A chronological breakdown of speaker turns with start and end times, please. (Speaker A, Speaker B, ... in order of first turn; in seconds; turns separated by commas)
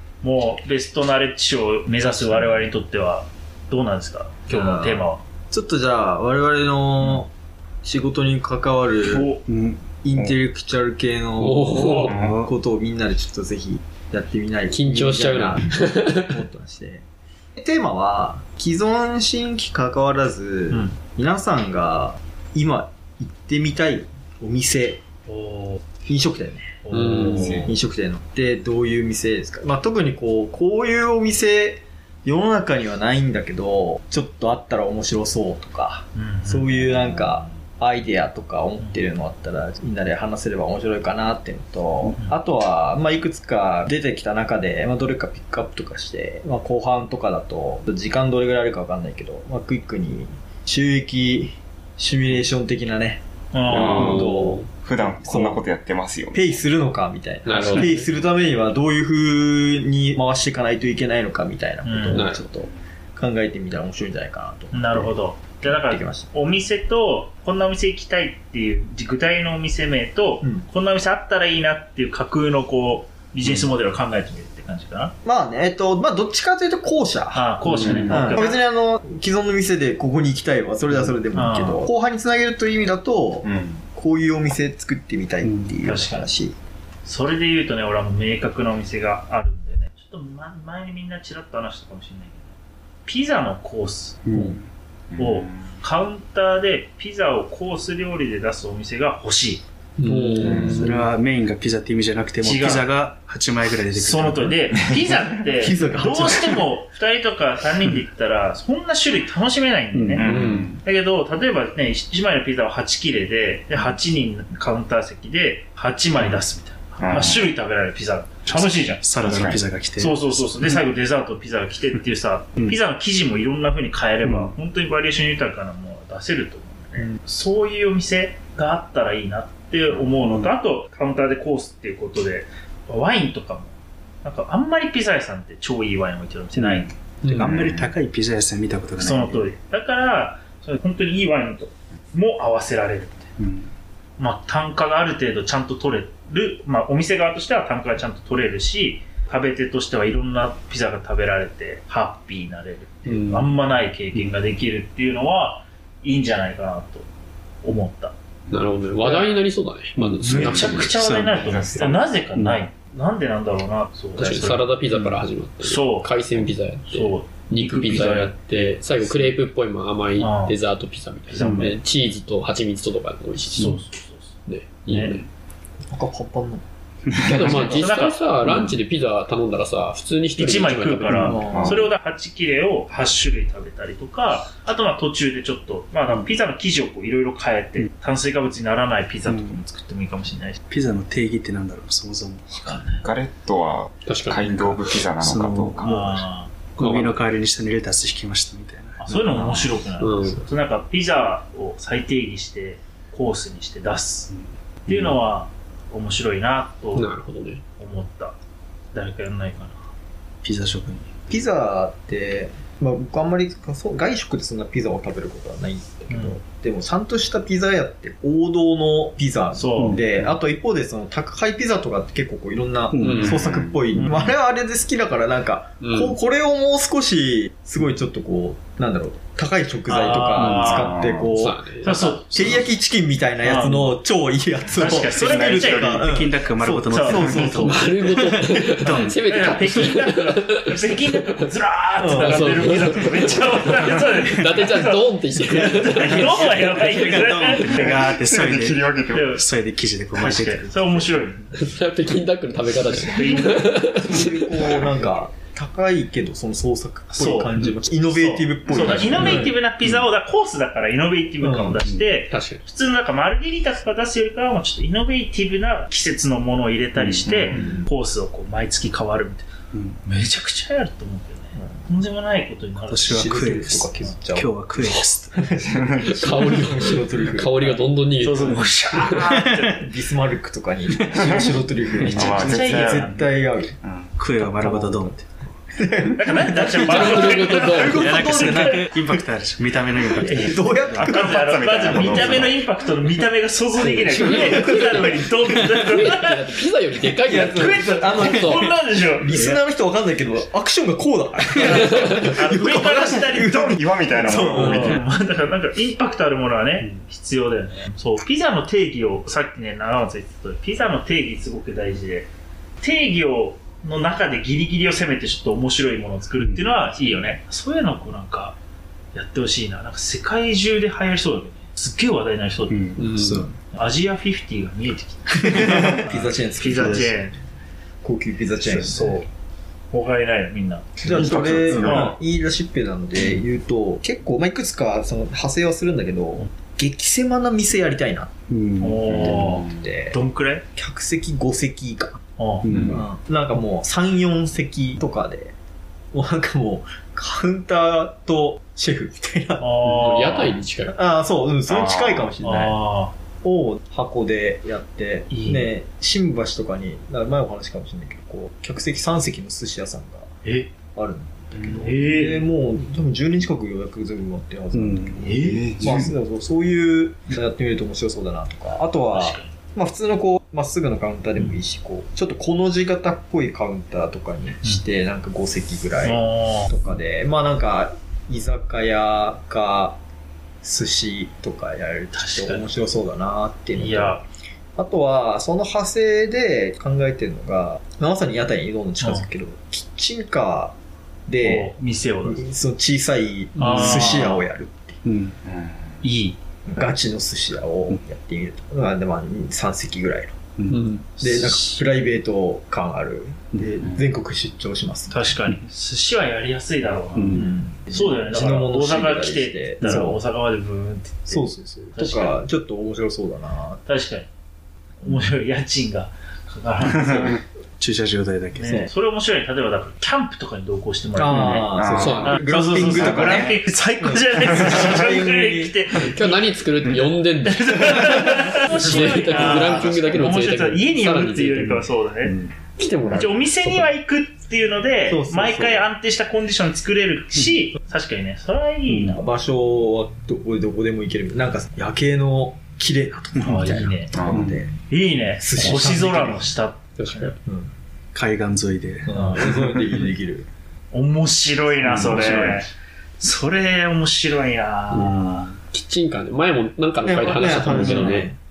Speaker A: 0.2-5.2, Speaker B: 4.5-7.3, Speaker B: 7.8-9.3, Speaker A: 9.0-9.4, Speaker C: 9.5-9.8, Speaker B: 10.0-17.0, Speaker D: 11.4-12.1, Speaker A: 11.7-12.1, Speaker C: 12.1-12.5, Speaker E: 12.1-12.4, Speaker D: 14.7-16.3, Speaker B: 17.6-25.0, Speaker A: 25.3-25.8, Speaker B: 26.1-55.7, Speaker A: 26.8-27.7, Speaker D: 26.9-27.4, Speaker E: 27.1-27.7, Speaker A: 36.2-36.9, Speaker A: 38.8-39.0, Speaker A: 53.5-54.2, Speaker E: 53.7-56.6, Speaker D: 54.1-54.7, Speaker B: 56.3-66.3, Speaker D: 57.5-58.1, Speaker A: 61.8-62.2, Speaker D: 62.1-62.4, Speaker A: 64.7-75.2, Speaker B: 75.2-77.5, Speaker A: 77.3-78.6, Speaker D: 77.7-78.1, Speaker E: 77.8-78.5, Speaker B: 78.1-86.5, Speaker A: 81.3-81.9, Speaker E: 83.4-83.8, Speaker C: 85.4-85.8, Speaker A: 85.8-86.3, Speaker A: 87.0-92.5, Speaker A: 93.1-94.2, Speaker C: 94.3-94.7, Speaker E: 95.1-95.8, Speaker A: 95.2-99.6, Speaker D: 100.0-101.1, Speaker C: 100.1-104.7, Speaker E: 100.1-100.9, Speaker A: 102.4-102.9, Speaker A: 104.0-133.7, Speaker B: 105.6-106.7, Speaker C: 109.9-110.5, Speaker E: 110.2-110.8, Speaker D: 110.3-110.7, Speaker E: 117.0-117.5, Speaker C: 118.5-120.8, Speaker E: 119.2-119.6, Speaker C: 124.2-124.6, Speaker C: 130.0-130.5, Speaker A: 134.2-136.9, Speaker C: 136.5-139.5, Speaker D: 137.2-137.5, Speaker E: 137.4-137.9, Speaker A: 139.0-143.3, Speaker C: 143.4-143.7, Speaker A: 144.2-157.1, Speaker D: 153.1-153.5, Speaker A: 157.6-158.1, Speaker D: 158.5-160.9, Speaker A: 159.0-159.4, Speaker C: 160.0-162.7, Speaker E: 160.3-160.8, Speaker A: 160.3-164.8, Speaker E: 161.4-162.1, Speaker D: 164.2-173.8, Speaker C: 164.5-165.2, Speaker A: 165.6-169.3, Speaker A: 170.2-170.6, Speaker A: 171.3-171.8, Speaker C: 171.4-171.7, Speaker A: 173.6-174.3, Speaker D: 174.5-175.2, Speaker A: 174.9-175.2, Speaker B: 175.9-176.6, Speaker D: 177.2-181.5, Speaker C: 177.3-177.5, Speaker E: 177.3-177.8, Speaker A: 177.5-178.2, Speaker C: 178.5-178.7, Speaker A: 180.4-190.6, Speaker B: 181.1-181.8, Speaker E: 181.4-181.9, Speaker C: 189.2-189.6, Speaker C: 190.7-192.5, Speaker E: 192.5-196.1, Speaker A: 192.6-193.1, Speaker D: 194.1-194.4, Speaker C: 194.4-199.7, Speaker A: 195.8-196.6, Speaker D: 196.8-197.2, Speaker A: 199.0-204.3, Speaker D: 200.0-200.4, Speaker C: 204.3-205.2, Speaker A: 204.9-207.1, Speaker D: 206.9-207.6, Speaker A: 207.8-208.3, Speaker A: 208.9-209.8, Speaker C: 210.4-211.3, Speaker B: 211.3-238.8, Speaker A: 216.1-216.4, Speaker A: 219.5-220.1, Speaker C: 219.8-220.3, Speaker C: 222.9-223.4, Speaker D: 223.0-223.4, Speaker E: 223.3-224.0, Speaker A: 224.0-224.3, Speaker D: 225.8-226.2, Speaker A: 229.9-230.9, Speaker C: 230.4-230.8, Speaker E: 230.6-231.3, Speaker D: 231.3-231.9, Speaker A: 231.8-232.6, Speaker C: 232.3-232.6, Speaker A: 233.4-234.0, Speaker A: 234.7-236.0, Speaker C: 234.8-237.6, Speaker E: 235.1-236.1, Speaker A: 236.9-237.9, Speaker E: 237.1-237.6, Speaker D: 237.6-241.2, Speaker C: 238.8-239.2, Speaker A: 239.2-248.2, Speaker B: 242.0-243.5, Speaker D: 242.1-247.2, Speaker C: 245.8-251.3, Speaker E: 247.8-249.4, Speaker A: 249.1-249.5, Speaker A: 250.2-251.6, Speaker D: 251.6-254.9, Speaker A: 252.8-253.9, Speaker B: 253.9-259.5, Speaker A: 257.1-269.5, Speaker E: 258.7-259.3, Speaker B: 261.4-261.8, Speaker D: 262.3-262.6, Speaker E: 266.9-267.6, Speaker B: 267.5-267.9, Speaker C: 269.7-270.0, Speaker A: 270.1-273.2, Speaker B: 271.6-271.9, Speaker C: 272.8-275.4, Speaker B: 273.0-277.9, Speaker A: 274.8-275.1, Speaker E: 275.6-276.2, Speaker D: 276.1-279.2, Speaker A: 278.2-279.9, Speaker C: 279.3-279.6, Speaker B: 279.7-283.8, Speaker E: 281.1-283.2, Speaker C: 282.1-282.7, Speaker A: 282.2-283.3, Speaker E: 283.8-284.2, Speaker C: 284.1-285.5, Speaker B: 284.4-285.1, Speaker B: 285.8-289.2, Speaker A: 286.1-288.8, Speaker D: 286.9-288.1, Speaker C: 287.8-291.1, Speaker A: 290.1-296.6, Speaker B: 290.3-292.4, Speaker E: 291.1-292.6, Speaker D: 293.8-295.1, Speaker B: 294.1-294.9, Speaker D: 295.8-298.7, Speaker B: 297.2-305.0, Speaker A: 297.3-299.4, Speaker C: 299.3-299.6, Speaker A: 301.6-312.3, Speaker E: 303.7-305.0, Speaker A: 312.8-318.6, Speaker C: 316.4-316.8, Speaker A: 319.1-322.8, Speaker C: 322.7-323.6, Speaker D: 323.0-323.5, Speaker A: 323.7-327.4, Speaker B: 325.4-327.3, Speaker B: 328.0-329.2, Speaker A: 328.6-329.3, Speaker A: 329.9-332.2, Speaker E: 331.0-332.0, Speaker B: 331.0-338.3, Speaker C: 338.5-339.2, Speaker A: 338.8-340.6, Speaker B: 339.1-340.2, Speaker E: 339.1-339.9, Speaker B: 340.7-342.2, Speaker A: 342.4-342.7, Speaker C: 342.6-343.0, Speaker E: 342.7-343.0, Speaker B: 342.9-345.5, Speaker B: 346.1-349.7, Speaker A: 349.6-350.6, Speaker D: 349.8-351.0, Speaker B: 350.9-352.8, Speaker A: 351.7-353.1, Speaker B: 353.4-360.3, Speaker A: 355.3-355.7, Speaker A: 360.4-360.7, Speaker B: 360.9-380.0, Speaker A: 361.6-362.5, Speaker C: 364.7-365.3, Speaker A: 365.2-365.6, Speaker E: 365.4-366.1, Speaker C: 365.8-366.1, Speaker A: 369.1-369.5, Speaker A: 376.0-376.7, Speaker B: 380.6-384.2, Speaker A: 382.1-382.7, Speaker A: 383.8-384.2, Speaker B: 384.8-390.8, Speaker A: 389.0-389.3, Speaker B: 391.3-395.0, Speaker A: 391.4-392.4, Speaker A: 393.6-394.5, Speaker C: 395.0-395.4, Speaker E: 395.4-396.1, Speaker A: 396.0-396.4, Speaker B: 396.7-400.4, Speaker D: 400.7-401.1, Speaker A: 401.2-401.8, Speaker B: 401.2-405.2, Speaker E: 403.8-404.1, Speaker A: 405.1-412.4, Speaker C: 407.1-407.5, Speaker B: 407.3-410.2, Speaker B: 411.3-413.8, Speaker A: 413.9-414.3, Speaker A: 415.0-417.4, Speaker C: 417.8-418.9, Speaker A: 418.6-426.5, Speaker B: 418.6-418.9, Speaker B: 421.1-425.9, Speaker E: 421.6-422.3, Speaker D: 422.0-422.4, Speaker E: 422.9-423.5, Speaker D: 426.0-431.8, Speaker C: 426.8-427.1, Speaker A: 427.4-432.4, Speaker B: 428.9-430.2, Speaker C: 431.6-432.6, Speaker D: 432.8-433.9, Speaker A: 433.1-439.2, Speaker B: 435.1-435.9, Speaker C: 438.9-439.2, Speaker B: 439.2-444.8, Speaker C: 443.4-444.6, Speaker A: 443.4-444.1, Speaker E: 444.1-444.6, Speaker A: 444.9-447.4, Speaker B: 445.4-446.6, Speaker D: 447.0-447.4, Speaker B: 447.4-447.7, Speaker C: 448.1-449.7, Speaker B: 449.1-450.5, Speaker A: 449.1-449.6, Speaker A: 450.9-452.7, Speaker C: 451.8-452.7, Speaker A: 453.2-455.5, Speaker D: 454.9-458.3, Speaker C: 454.9-455.6, Speaker B: 457.0-458.4, Speaker C: 457.8-458.1